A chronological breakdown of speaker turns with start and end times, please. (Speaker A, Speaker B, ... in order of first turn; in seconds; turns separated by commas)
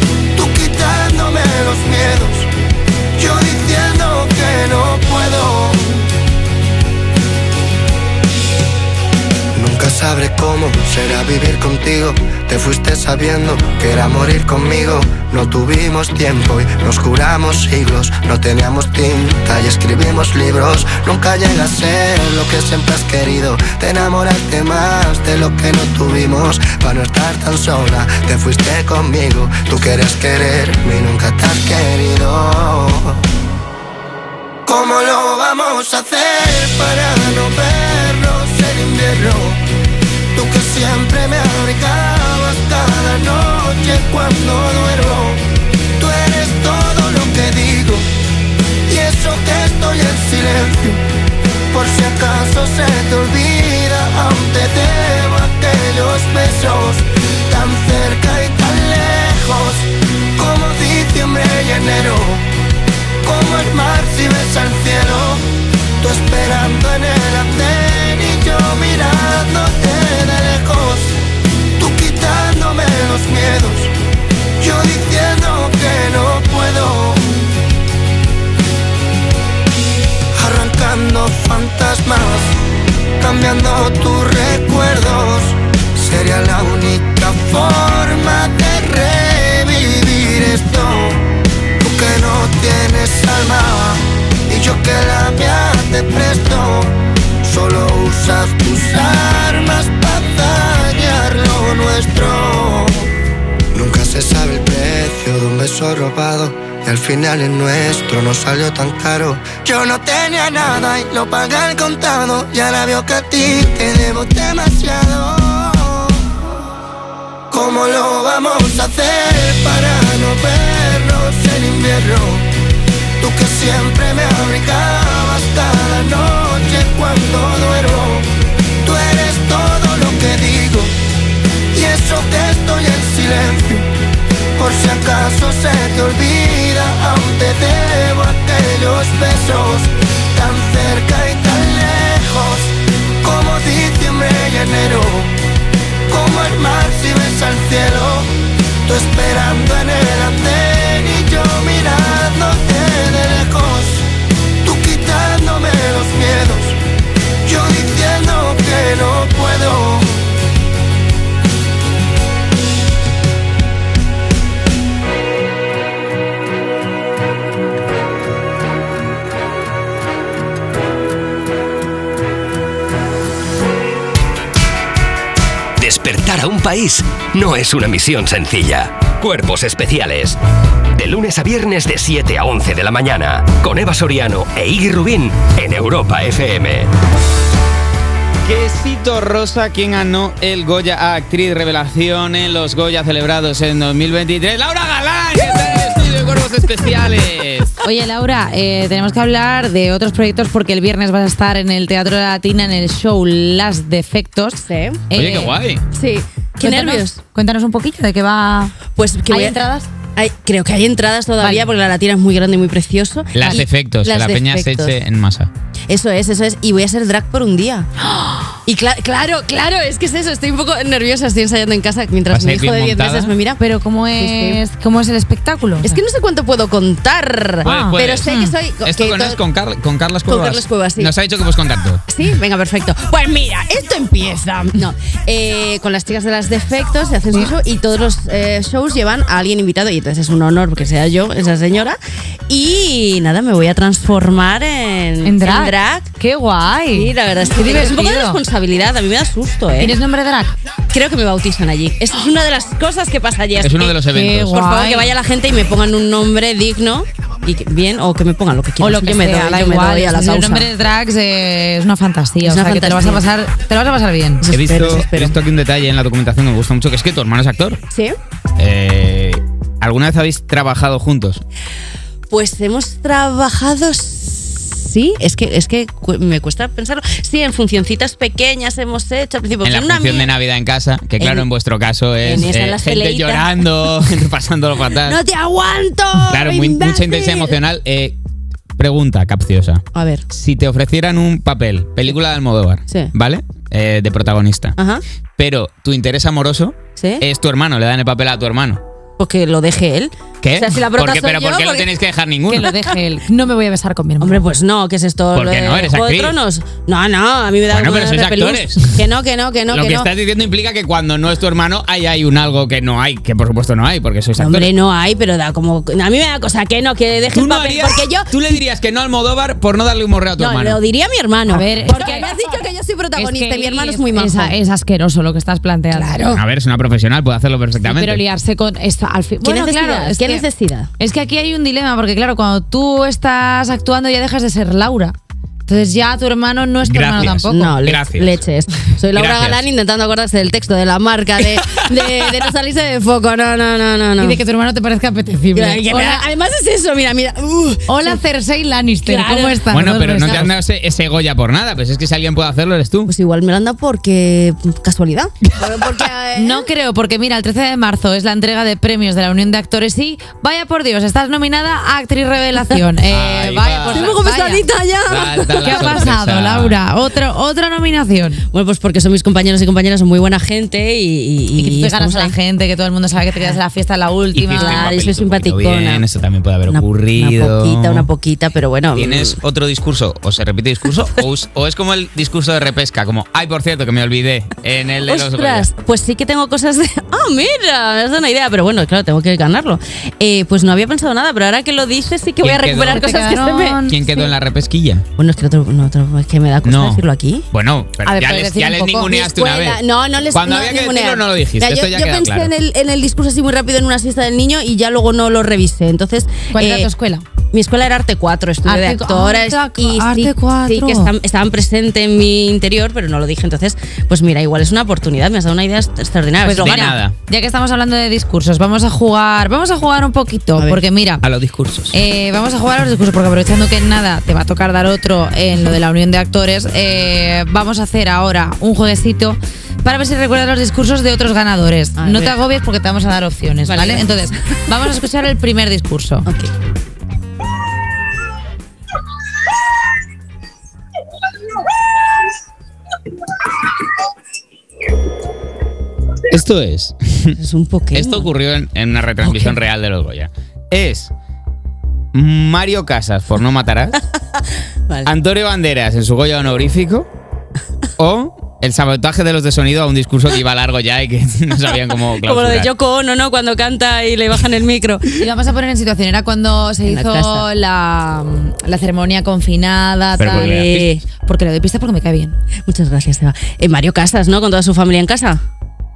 Speaker A: 0.3-2.5, Speaker A: 3.2-6.1, Speaker A: 9.5-33.2, Speaker A: 34.7-39.6, Speaker A: 40.3-45.5, Speaker A: 46.0-48.1, Speaker A: 48.9-51.0, Speaker A: 51.7-62.5, Speaker A: 63.2-65.5, Speaker A: 66.0-71.2, Speaker A: 71.8-73.9, Speaker A: 74.6-77.5, Speaker A: 80.4-82.6, Speaker A: 83.2-103.1, Speaker A: 103.7-116.2, Speaker A: 117.5-122.5, Speaker A: 123.2-128.3, Speaker A: 128.8-131.0, Speaker A: 131.7-133.9, Speaker A: 134.6-145.3, Speaker A: 146.1-154.1, Speaker A: 154.6-156.8, Speaker A: 157.4-160.4, Speaker B: 175.8-180.4, Speaker B: 180.9-186.9, Speaker C: 188.4-197.8, Speaker D: 197.8-205.6, Speaker E: 204.6-205.1, Speaker C: 205.1-205.8, Speaker E: 205.9-207.2, Speaker D: 206.6-208.8, Speaker E: 209.0-209.6, Speaker D: 209.3-209.9, Speaker E: 210.2-215.0, Speaker D: 211.4-211.7, Speaker C: 213.3-215.5, Speaker D: 213.4-213.6, Speaker E: 215.9-223.6, Speaker C: 222.3-223.3, Speaker D: 223.6-226.0, Speaker E: 224.2-224.6, Speaker E: 225.8-229.4, Speaker C: 227.6-228.3, Speaker D: 227.6-228.6, Speaker C: 228.8-232.0, Speaker E: 230.2-231.2, Speaker E: 232.1-242.0, Speaker E: 242.5-246.1, Speaker D: 245.2-248.4, Speaker E: 246.9-249.9, Speaker D: 249.8-250.5, Speaker E: 250.9-260.7, Speaker C: 253.6-254.6, Speaker D: 254.1-255.1, Speaker D: 258.8-264.5, Speaker E: 262.4-263.2, Speaker E: 264.4-265.4, Speaker C: 264.5-267.8, Speaker C: 268.6-271.4, Speaker E: 272.3-280.4, Speaker C: 279.6-285.2, Speaker E: 281.2-281.5, Speaker E: 282.2-283.6, Speaker E: 285.0-287.6, Speaker C: 286.3-288.2, Speaker C: 288.8-294.8, Speaker E: 289.9-290.2, Speaker E: 294.8-295.0, Speaker C: 295.4-298.8, Speaker E: 297.0-297.2, Speaker E: 299.2-301.9, Speaker C: 300.4-302.7, Speaker D: 302.5-304.4, Speaker E: 304.2-310.1, Speaker C: 305.3-306.4, Speaker C: 307.7-309.0, Speaker C: 309.7-314.7, Speaker E: 314.4-318.6, Speaker C: 317.3-320.8, Speaker E: 320.4-324.6, Speaker D: 321.5-322.3, Speaker D: 323.2-326.2, Speaker E: 325.9-326.4, Speaker C: 326.3-328.2, Speaker D: 327.9-330.4, Speaker E: 329.4-330.9, Speaker D: 331.0-335.2, Speaker D: 335.7-337.8, Speaker C: 336.8-338.4, Speaker E: 337.4-344.4, Speaker C: 339.1-339.6, Speaker D: 344.2-346.2, Speaker E: 345.5-348.2, Speaker D: 347.9-350.5, Speaker E: 349.0-350.5, Speaker C: 349.7-353.1, Speaker E: 353.1-356.7, Speaker D: 356.4-364.7, Speaker C: 363.1-364.1, Speaker E: 363.9-366.1, Speaker C: 365.1-366.8, Speaker D: 365.6-368.4, Speaker E: 368.5-372.3, Speaker D: 371.6-374.9, Speaker C: 374.3-378.1, Speaker E: 374.5-376.1, Speaker E: 376.7-379.4, Speaker C: 378.9-385.7, Speaker E: 385.0-394.3, Speaker C: 392.4-393.0, Speaker D: 392.9-394.0, Speaker C: 393.9-395.1, Speaker E: 395.2-397.5, Speaker C: 396.6-399.8, Speaker D: 398.0-399.2, Speaker E: 399.0-406.9, Speaker C: 400.3-402.5, Speaker D: 406.5-407.3, Speaker E: 407.5-417.0, Speaker D: 408.6-411.1, Speaker D: 416.4-421.2, Speaker C: 416.6-417.1, Speaker C: 421.2-421.9, Speaker D: 421.9-436.3, Speaker E: 432.0-432.4, Speaker E: 433.7-434.3, Speaker E: 436.3-436.5, Speaker C: 446.3-447.4, Speaker E: 447.4-448.3, Speaker C: 447.9-451.1, Speaker E: 449.2-449.6, Speaker C: 452.1-454.0, Speaker C: 455.1-457.1, Speaker C: 458.0-462.7, Speaker E: 462.1-465.2, Speaker D: 465.2-472.4, Speaker E: 466.8-467.5, Speaker C: 470.2-470.7, Speaker E: 470.3-471.0, Speaker E: 472.7-475.4